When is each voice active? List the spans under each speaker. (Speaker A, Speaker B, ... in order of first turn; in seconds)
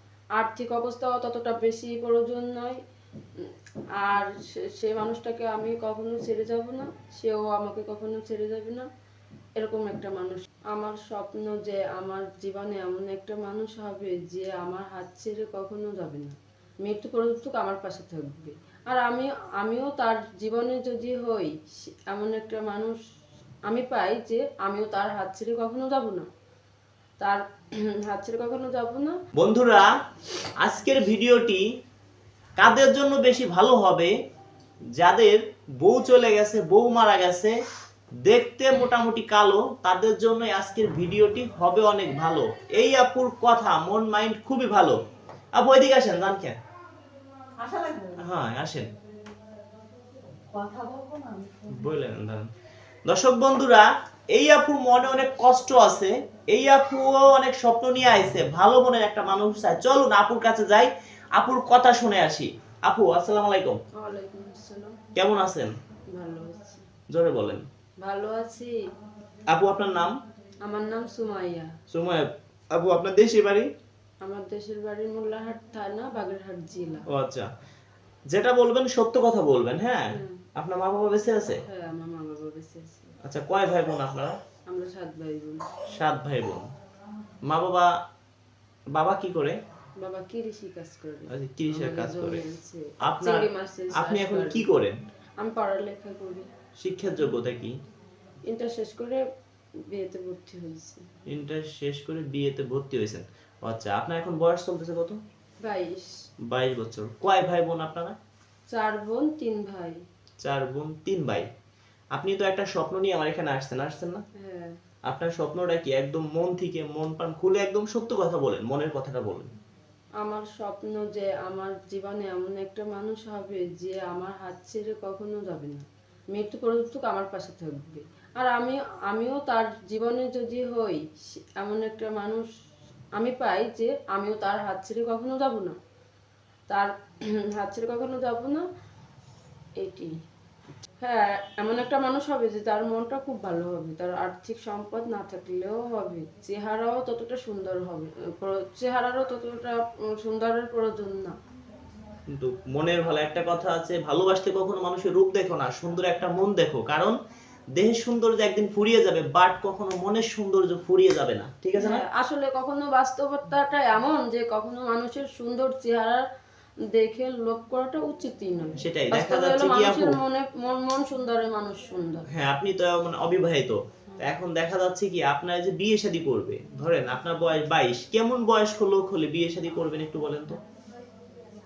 Speaker A: 0.4-2.8, 4.0-8.9, 9.6-23.0, 23.7-26.3, 28.1-29.2, 64.0-65.0, 66.1-66.8, 68.0-68.8, 70.7-71.7, 74.2-77.0, 80.1-80.4, 81.7-83.1, 84.7-85.6, 90.0-94.7, 95.4-96.5, 98.5-99.2, 99.9-101.0, 105.6-106.2, 108.7-110.0, 114.4-114.8, 120.2-132.5, 133.2-135.8, 137.6-138.6, 139.8-140.1, 141.0-151.3, 161.8-166.2, 166.9-172.2
Speaker B: 29.4-29.9, 30.6-31.6, 32.6-34.1, 35.0-37.5, 38.2-45.0, 45.5-46.5, 48.2-48.9, 51.7-52.5, 53.0-63.8, 65.1-65.7, 67.1-67.6, 69.5-70.1, 71.9-73.7, 77.1-77.5, 78.3-81.6, 83.2-84.4, 85.9-86.7, 87.5-87.9, 89.0-89.6, 91.3-92.4, 93.0-95.0, 96.8-97.8, 101.3-105.2, 106.5-108.2, 110.4-111.5, 112.1-114.2, 115.1-119.5, 152.3-157.2, 157.8-162.0, 168.8-170.2, 172.3-180.6
Speaker C: 47.6-48.2, 50.5-51.9